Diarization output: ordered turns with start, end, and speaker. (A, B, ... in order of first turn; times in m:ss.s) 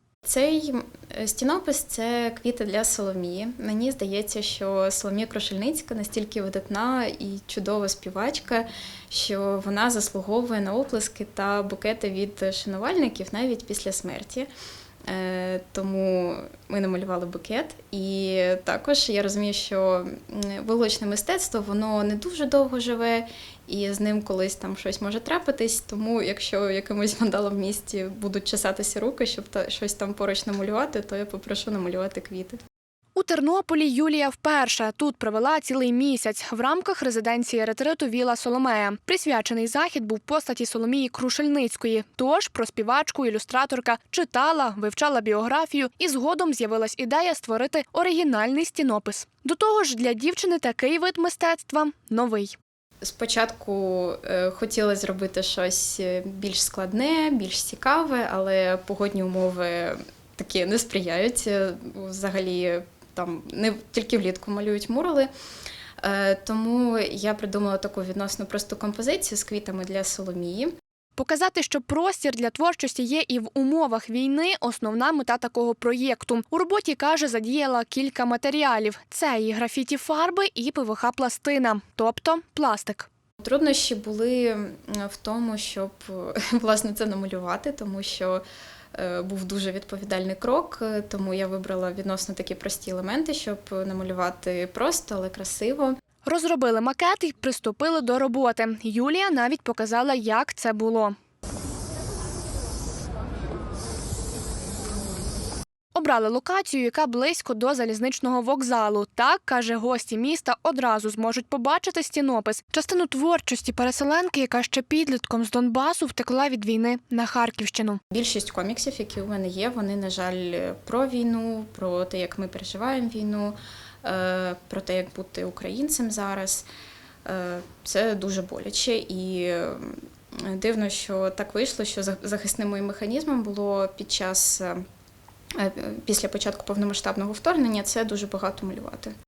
0:00.2-0:14.5 A
0:15.1-0:32.6 A
0:33.1-0:52.6 B
0:53.0-1:05.3 A
1:06.0-1:10.7 A
1:11.2-1:23.1 B
1:23.4-1:28.4 A
1:28.9-1:36.0 A
1:36.2-1:41.2 B
1:45.9-1:58.0 B
1:58.1-2:06.7 A
2:07.2-2:14.8 A
2:15.6-2:19.1 A